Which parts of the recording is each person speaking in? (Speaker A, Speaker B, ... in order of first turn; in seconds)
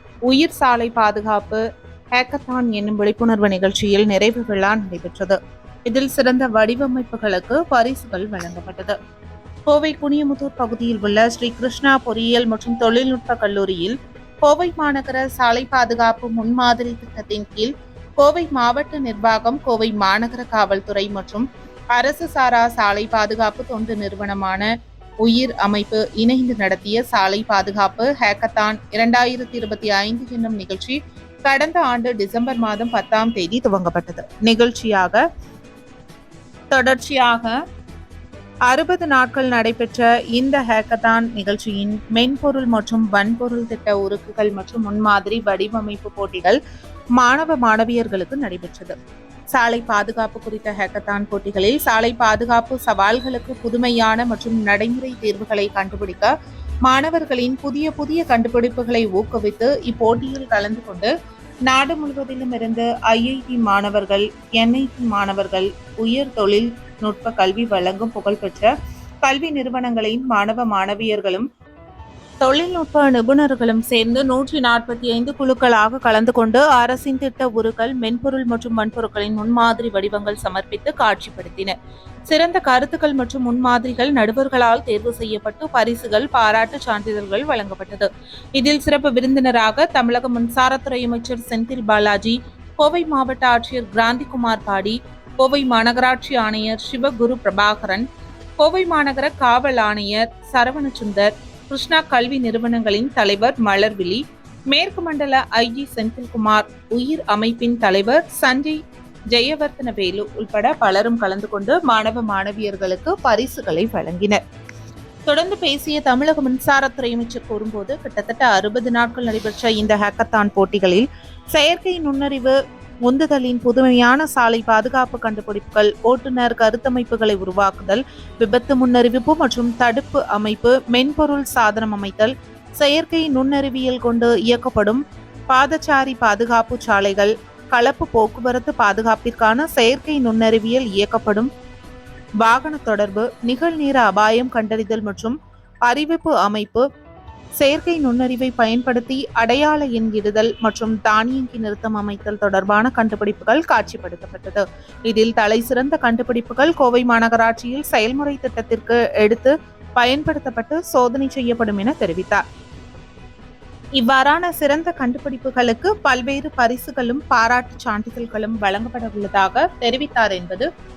Speaker A: 0.3-1.6, 2.1-9.0, 9.7-24.7, 25.2-35.2, 36.7-37.5, 38.7-46.6, 47.2-49.0, 49.5-56.3, 56.9-61.1, 61.7-68.7, 69.2-71.5, 72.4-81.7, 82.3-98.1, 98.6-108.8, 109.3-114.4, 115.3-141.5, 142.4-146.8, 147.6-162.4, 164.0-170.7